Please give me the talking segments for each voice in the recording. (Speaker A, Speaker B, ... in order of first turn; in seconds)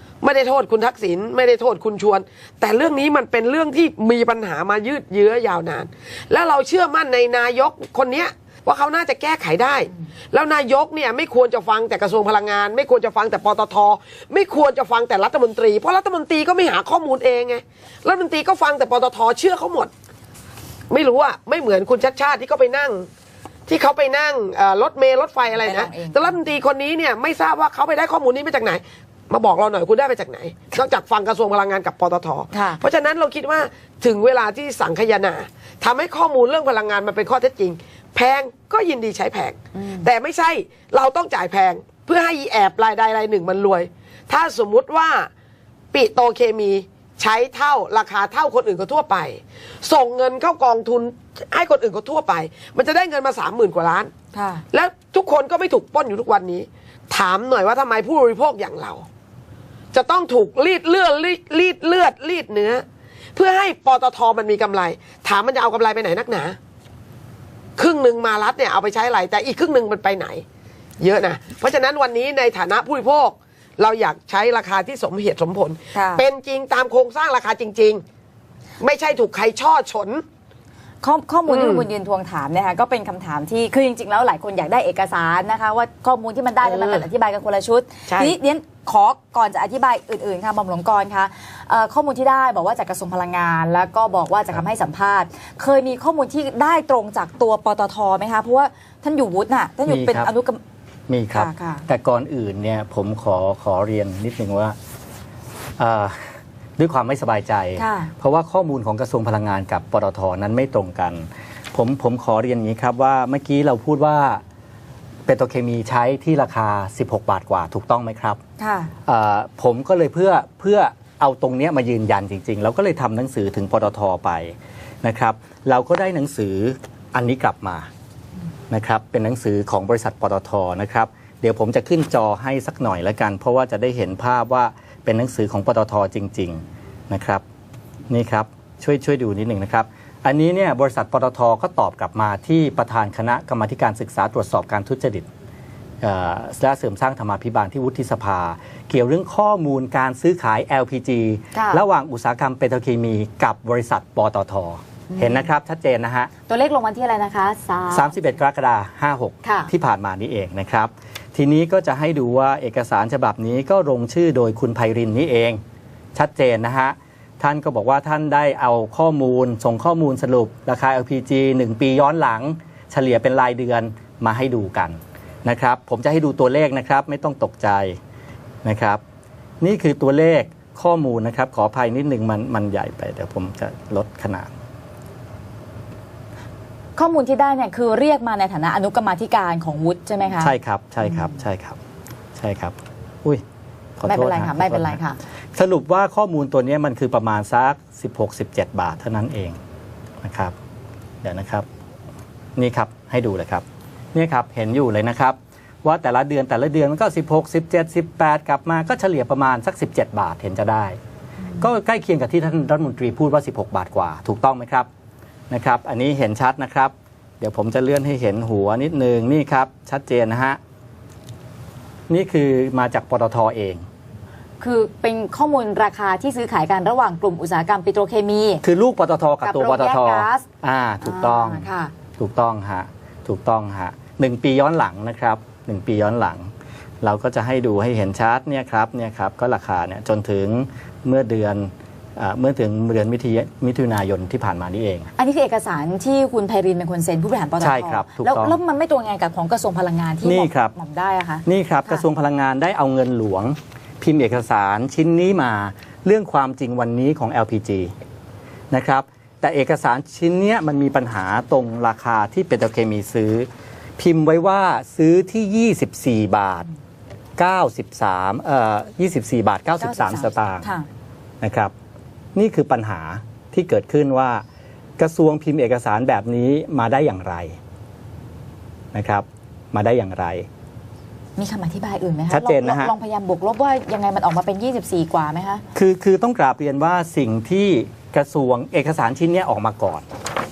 Speaker A: 0.2-19.9, 20.9-23.1, 23.7-45.3, 45.9-54.1, 54.7-59.0, 59.9-66.6, 67.8-70.4, 71.0-78.0, 78.8-80.2, 81.5-81.8, 86.6-87.1, 88.1-88.3
Speaker B: 25.5-26.4, 32.5-32.8, 39.7-40.1, 54.3-54.6, 75.9-76.2, 81.0-100.6, 101.3-101.8, 107.8-108.1, 118.6-118.9, 151.5-151.8, 155.1-155.4, 156.5-158.2, 159.4-159.7, 186.9-190.5, 194.1-195.2, 224.6-228.6, 229.4-230.4, 231.0-231.9, 245.2-252.0, 269.8-270.9, 281.4-285.6
Speaker C: 99.8-100.3, 101.1-104.8, 105.8-114.4, 115.3-118.4, 119.0-127.9, 128.7-137.4, 138.1-145.3, 146.0-156.3, 157.9-165.6, 166.1-178.0, 178.6-179.0, 179.6-184.5, 190.4-191.8, 192.3-193.4, 194.0-195.0, 195.5-199.6, 200.2-200.5, 201.2-201.7, 202.6-211.0, 211.6-214.9, 215.5-220.6, 222.1-223.8, 228.6-231.7, 232.2-236.5, 237.0-245.1, 247.6-248.6, 250.2-250.7, 251.4-257.9, 258.7-266.7, 267.4-270.7, 271.4-271.7, 272.3-274.4, 275.0-277.6, 278.9-280.5, 282.3-282.9, 285.7-290.0